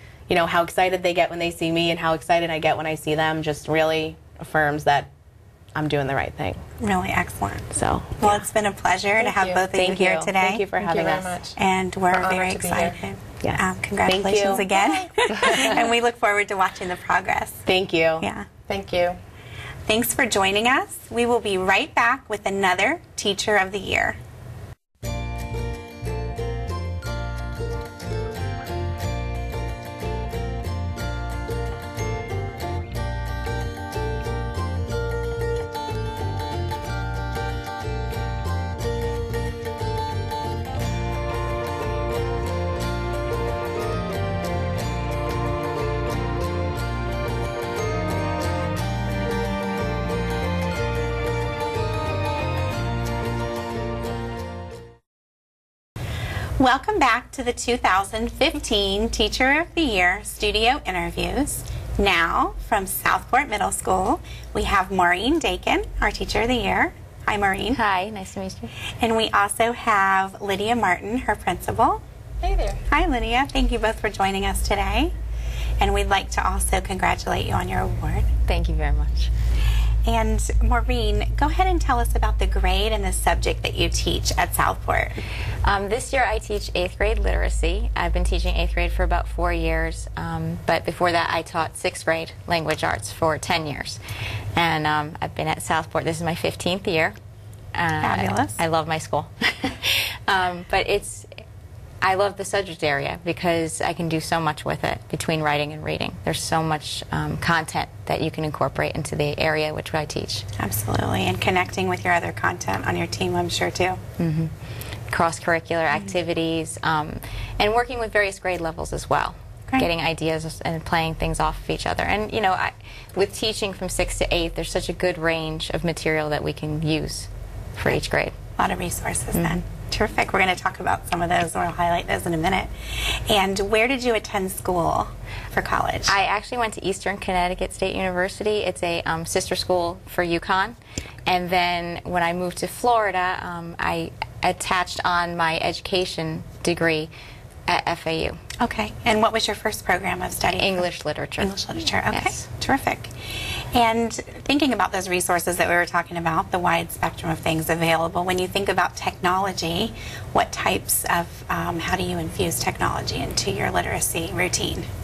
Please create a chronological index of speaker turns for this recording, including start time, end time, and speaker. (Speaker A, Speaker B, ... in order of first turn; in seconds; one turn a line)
Speaker A: 0.3-5.1
Speaker A: 5.8-6.6
Speaker B: 6.8-10.7
Speaker A: 7.8-8.4
Speaker C: 9.3-9.6
Speaker A: 9.3-11.3
Speaker C: 10.8-11.6
Speaker B: 11.6-17.7
Speaker C: 12.1-13.0
Speaker A: 13.4-14.7
Speaker A: 15.3-15.7
Speaker A: 17.7-18.3
Speaker B: 18.2-18.5
Speaker C: 18.7-19.2
Speaker B: 19.9-24.2
Speaker B: 56.6-67.8
Speaker D: 67.8-68.7
Speaker B: 69.0-72.0
Speaker C: 72.4-72.8
Speaker B: 72.9-75.1
Speaker B: 75.8-78.3
Speaker D: 78.5-79.3
Speaker B: 80.0-85.2
Speaker D: 85.7-94.0
Speaker D: 94.6-97.2
Speaker D: 97.8-101.3
Speaker B: 98.0-98.6
Speaker D: 102.0-110.5
Speaker B: 110.6-114.0
Speaker D: 114.2-114.5
Speaker D: 115.1-128.4
Speaker B: 128.6-136.2
Speaker D: 129.3-129.6
Speaker D: 136.1-147.1
Speaker D: 147.7-148.4
Speaker B: 148.6-164.9
Speaker D: 150.5-152.4